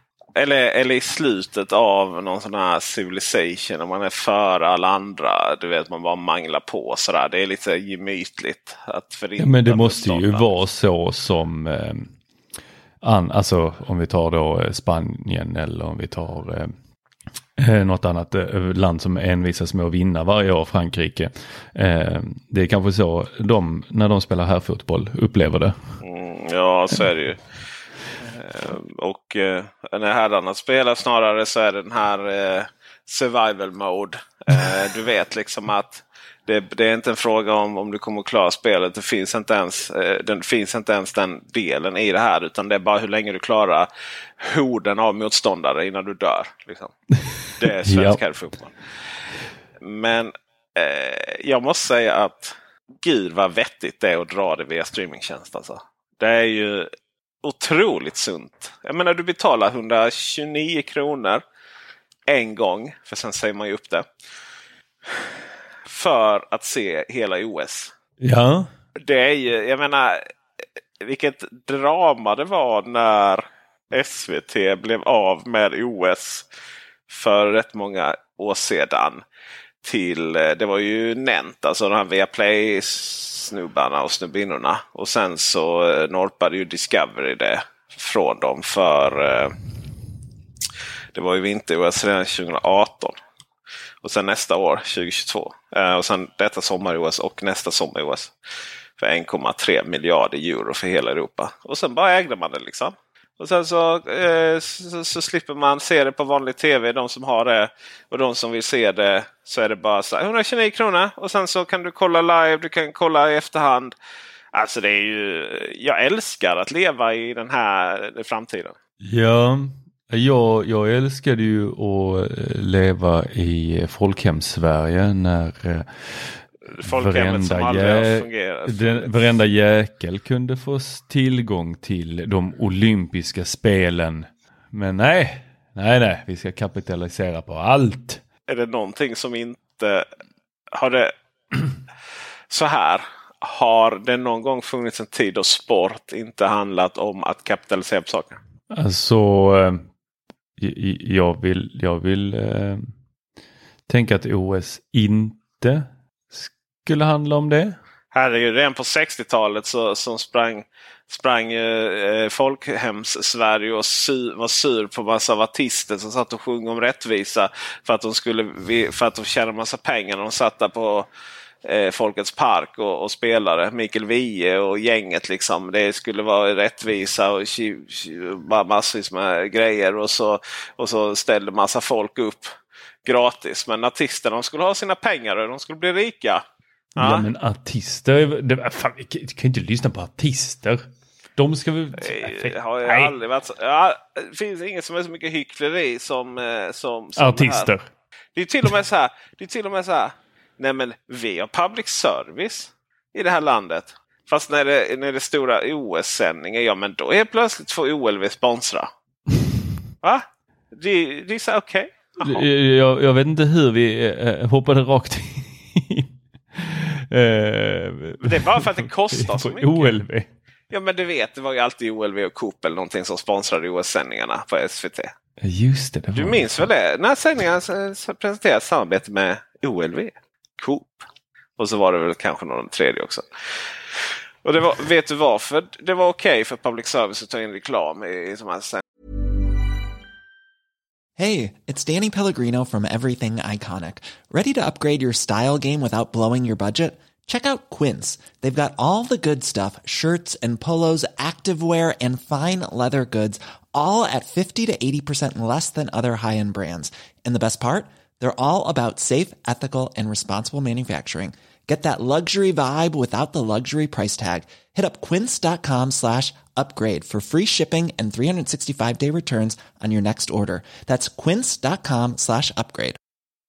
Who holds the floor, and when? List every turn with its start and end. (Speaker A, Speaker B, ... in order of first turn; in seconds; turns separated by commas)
Speaker A: 0.3-10.5, Speaker B: 9.4-12.1, Speaker B: 13.0-16.7, Speaker B: 17.6-25.8, Speaker A: 26.0-27.4, Speaker A: 28.2-43.9, Speaker A: 44.4-46.9, Speaker A: 47.6-48.7, Speaker B: 47.6-48.2, Speaker A: 49.8-56.9, Speaker A: 57.4-61.4, Speaker A: 62.3-64.1, Speaker A: 65.1-65.3, Speaker A: 65.9-67.9, Speaker B: 68.2-68.7, Speaker A: 69.0-70.3, Speaker A: 71.0-76.5, Speaker A: 77.1-79.2, Speaker A: 79.8-89.5, Speaker A: 91.1-93.2, Speaker A: 94.0-98.3, Speaker A: 99.0-113.9, Speaker A: 114.5-118.8, Speaker B: 119.0-138.2, Speaker A: 126.7-129.4, Speaker A: 138.5-140.1, Speaker A: 140.7-141.1, Speaker A: 142.5-148.4, Speaker B: 148.7-149.9, Speaker B: 150.6-152.9, Speaker B: 153.9-157.8, Speaker A: 158.1-171.1, Speaker A: 171.7-186.4, Speaker B: 187.0-193.2, Speaker A: 187.0-187.3, Speaker A: 192.0-197.7, Speaker B: 197.2-197.9, Speaker A: 198.3-208.9, Speaker A: 210.0-212.4, Speaker B: 212.2-220.3, Speaker A: 218.2-220.0, Speaker A: 220.7-225.1, Speaker B: 225.4-226.7, Speaker A: 226.1-231.1, Speaker A: 231.6-233.2, Speaker A: 234.4-238.8, Speaker C: 241.2-273.0